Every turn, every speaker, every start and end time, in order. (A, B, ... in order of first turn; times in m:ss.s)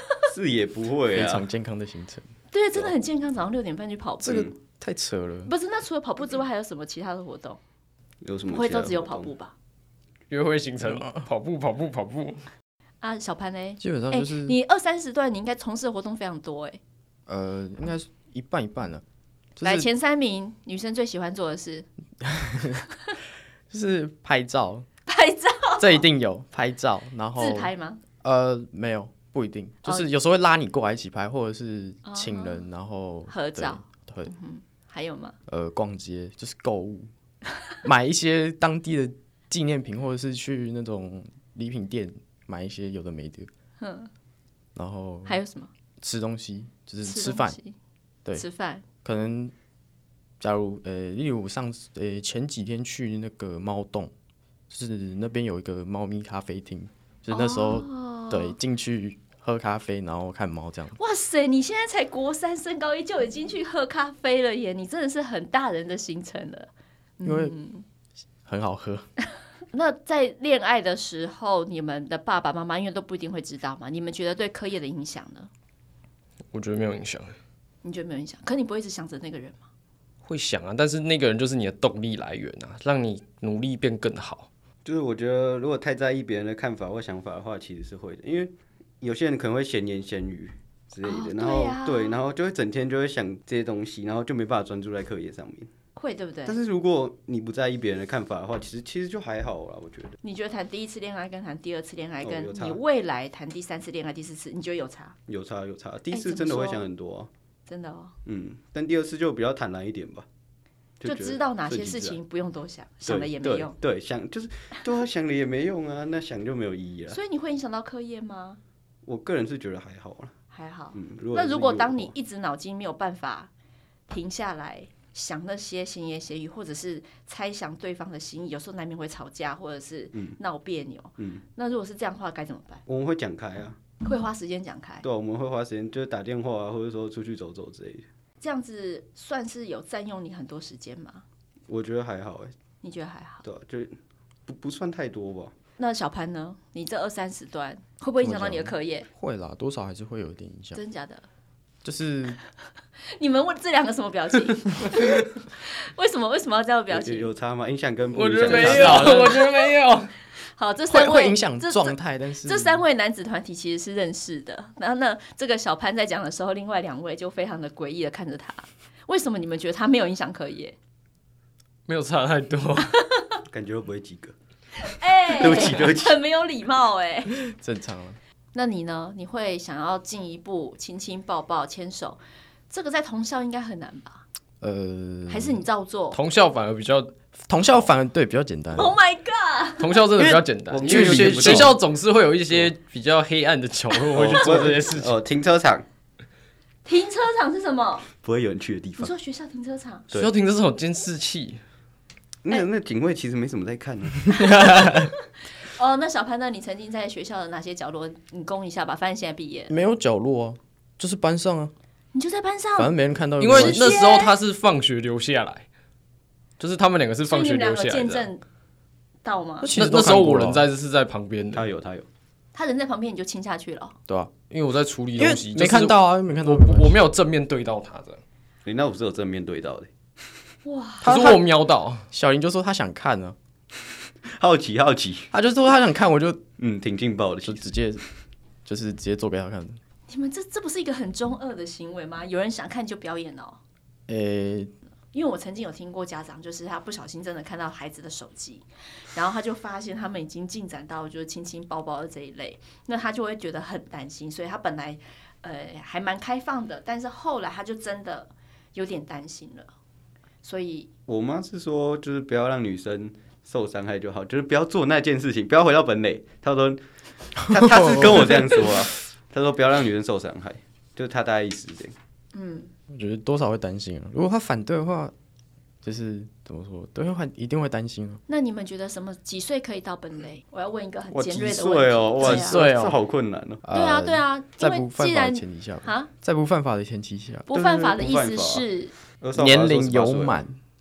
0:00.3-0:01.4 A
0:01.1-0:02.2 B
0:02.5-0:04.5 C
0:04.2-0:05.5 B
0:04.3-0:04.5 A
0:05.5-0:07.6 C
0:08.2-0:09.3 A
0:08.5-0:09.5 C
0:10.3-0:12.4 D
0:10.8-0:11.2 B
0:13.0-0:16.8 C
0:13.8-0:14.6 B
0:17.3-0:19.0 B
0:19.6-0:19.9 B
0:19.6-0:21.9 C
0:22.2-0:22.8 B
0:23.7-0:24.9 B
0:25.1-0:26.0 C
0:25.8-0:34.3 B
0:27.4-0:28.0 C
0:32.0-0:32.6 C
0:33.3-0:35.4 C
0:35.5-0:37.1 B
0:37.8-0:43.5 B
0:43.8-0:44.1 C
0:44.8-0:45.4 B
0:45.3-0:45.7 C
0:46.0-0:47.6 B
0:47.0-0:47.8 C
0:48.3-0:48.8 C
0:49.0-0:49.5 B
0:50.4-0:54.1 B
0:54.7-1:01.0 B
0:57.3-0:58.6 C
1:01.0-1:07.8 C
1:07.2-1:07.6 B
1:08.4-1:09.1 B
1:09.7-1:15.5 C
1:16.5-1:17.4 D
1:17.8-1:19.6 C
1:20.2-1:24.5 D
1:24.8-1:35.7 A
1:31.0-1:32.2 C
1:36.0-1:36.6 C
1:36.5-1:40.2 A
1:40.2-1:45.2 C
1:42.2-1:42.8 A
1:45.3-1:47.3 A
1:46.1-1:46.9 C
1:47.7-1:48.2 C
1:48.2-1:50.3 A
1:51.0-1:52.2 A
1:51.0-1:53.8 C
1:53.1-1:57.2 A
1:57.1-1:58.6 C
1:59.0-2:00.3 A
2:00.5-2:03.5 C
2:00.9-2:02.1 A
2:04.1-2:12.8 C
2:11.2-2:11.4 A
2:12.9-2:13.8 A
2:14.0-2:15.0 C
2:15.0-2:18.1 A
2:18.4-2:21.2 C
2:21.7-2:22.5 A
2:22.8-2:23.4 C
2:23.4-2:24.0 A
2:24.5-2:25.5 A
2:25.8-2:29.1 C
2:28.2-2:30.8 B
2:30.7-2:31.3 C
2:31.8-2:32.4 B
2:33.1-2:37.3 C
2:36.9-2:39.3 A
2:38.1-2:40.1 D
2:38.6-2:39.2 B
2:38.6-2:39.7 C
2:40.6-2:50.8 C
2:40.9-2:42.8 B
2:51.9-2:53.0 D
2:53.0-2:53.4 C
2:53.5-2:54.3 A
2:54.8-2:57.4 C
2:55.2-2:56.2 A
2:57.4-2:58.2 B
2:58.5-3:02.2 C
3:02.7-3:04.2 C
3:04.6-3:05.6 B
3:05.3-3:06.2 C
3:06.1-3:07.1 D
3:07.5-3:09.0 B
3:08.8-3:10.0 C
3:09.8-3:15.2 D
3:10.2-3:11.8 B
3:10.7-3:11.8 A
3:14.1-3:15.8 A
3:16.8-3:18.1 C
3:18.1-3:19.1 A
3:19.0-3:20.0 C
3:20.1-3:21.6 D
3:22.4-3:24.8 A
3:24.4-3:25.1 B
3:24.4-3:29.7 C
3:29.7-3:31.7 B
3:32.1-3:33.0 C
3:32.8-3:34.1 B
3:33.4-3:35.7 D
3:33.5-3:34.3 C
3:36.6-3:38.3 D
3:37.3-3:38.4 C
3:39.2-3:39.7 C
3:39.6-3:40.7 B
3:39.8-3:41.7 D
3:41.5-3:42.1 A
3:42.5-3:44.0 C
3:44.5-3:48.2 D
3:45.2-3:47.0 B
3:48.6-3:49.9 A
3:50.6-3:51.1 C
3:51.0-3:51.5 B
3:51.0-3:52.1 D
3:52.1-3:53.4 B
3:54.3-3:55.3 A
3:55.3-3:56.4 B
3:56.6-3:57.7 A
3:57.4-3:58.0 B
3:58.6-3:59.8 B
4:00.1-4:03.6 C
4:04.1-4:04.7 B
4:05.1-4:19.7 C
4:20.4-4:20.9 C
4:21.1-4:26.8 A
4:27.4-4:32.0 A
4:27.5-4:28.7 B
4:32.3-4:32.7 C
4:32.9-4:35.1 B
4:35.8-4:38.2 B
4:38.3-4:42.6 C
4:41.1-4:43.6 A
4:42.2-4:43.0 B
4:43.6-4:47.5 B
4:43.7-4:46.1 C
4:47.5-4:48.9 C
4:47.5-4:48.7 A
4:49.2-4:50.4 A
4:49.3-4:50.6 B